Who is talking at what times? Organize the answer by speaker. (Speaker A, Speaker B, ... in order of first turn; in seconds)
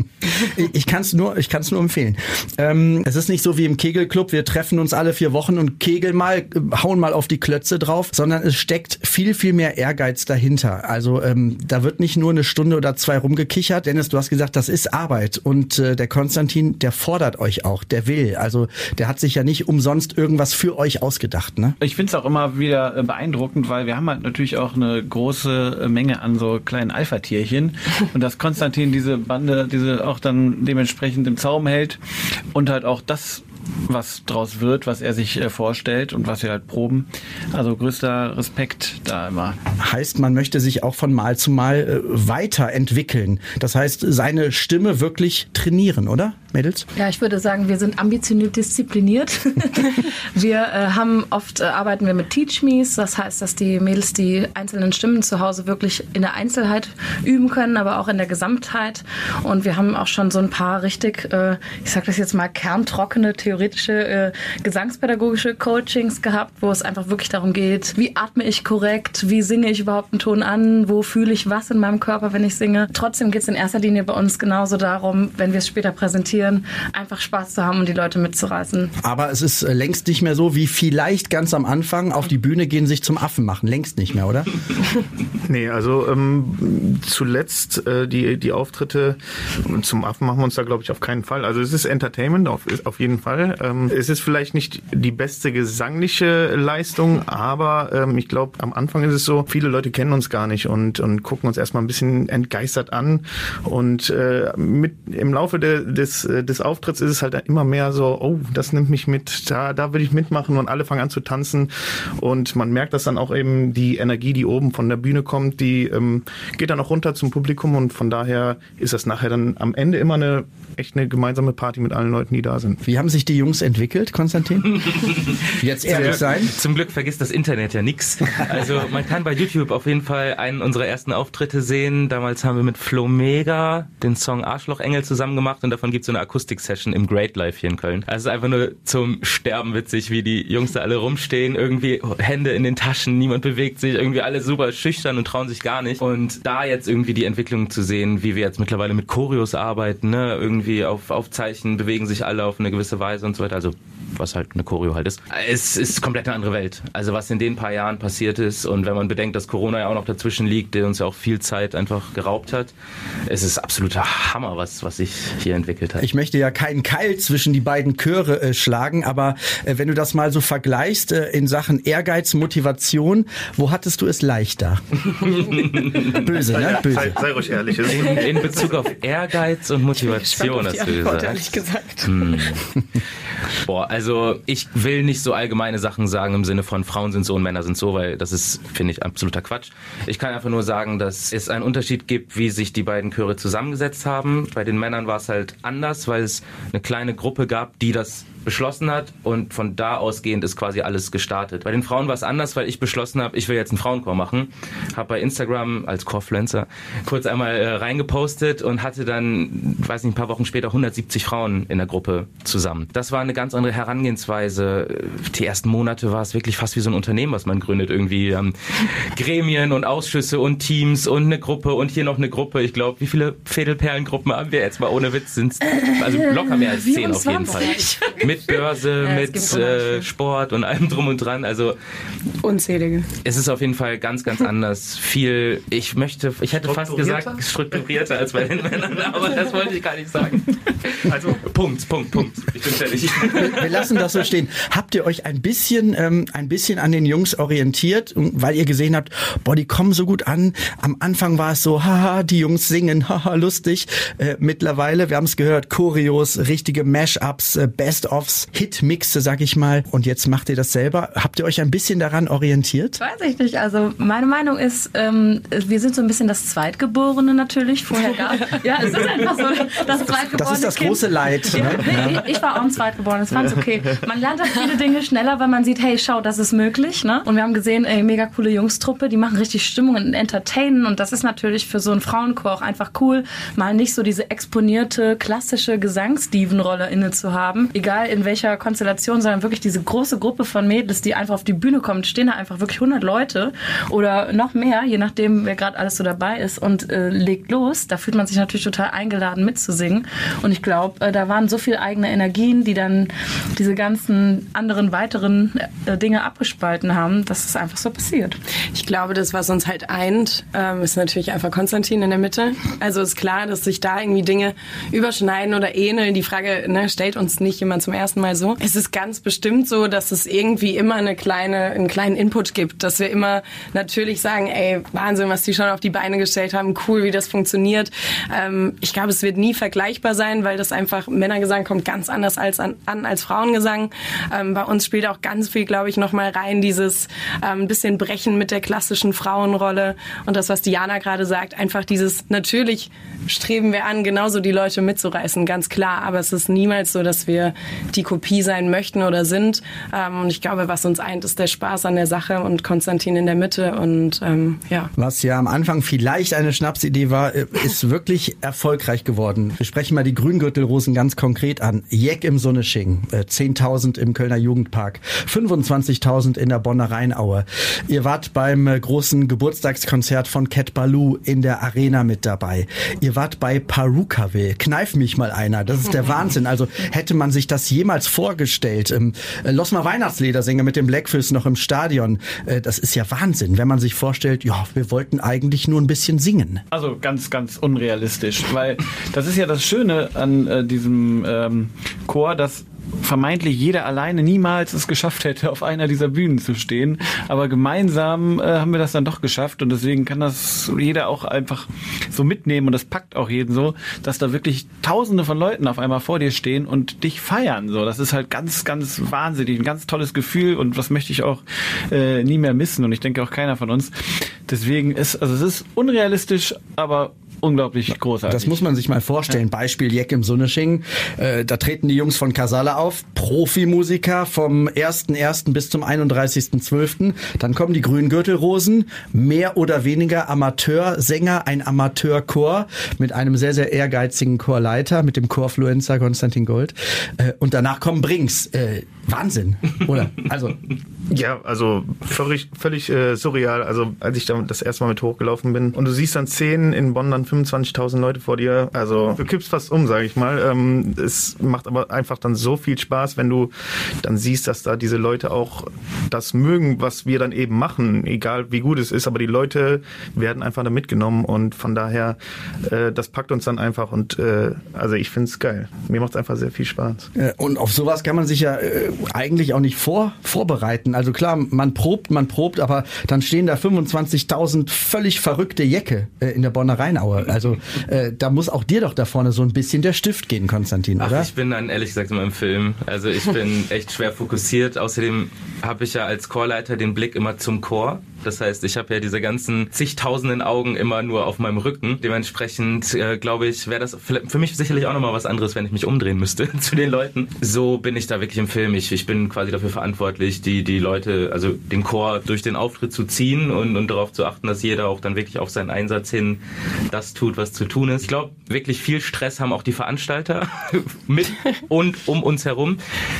Speaker A: 0.3-21.8, 39.8-46.9, 79.0-84.5, 122.8-125.0, 125.5-126.5, 166.0-174.8, 175.9-177.2, 243.4-263.0, 270.3-272.2, 355.0-386.6, 418.3-440.6, 467.1-481.3
Speaker B: 21.8-32.0, 32.5-39.5, 386.7-413.9, 414.5-418.6
Speaker C: 47.0-78.9, 225.7-228.2, 263.0-308.4
Speaker D: 85.5-122.8, 176.4-178.8, 236.6-237.4, 241.1-241.4, 441.1-453.5, 454.0-467.1
Speaker E: 124.7-162.7, 163.3-166.1, 175.1-176.4, 177.8-182.6, 183.6-231.7, 233.2-244.0, 481.0-512.8
Speaker F: 180.0-182.6, 227.5-230.1, 232.4-233.1, 308.7-354.9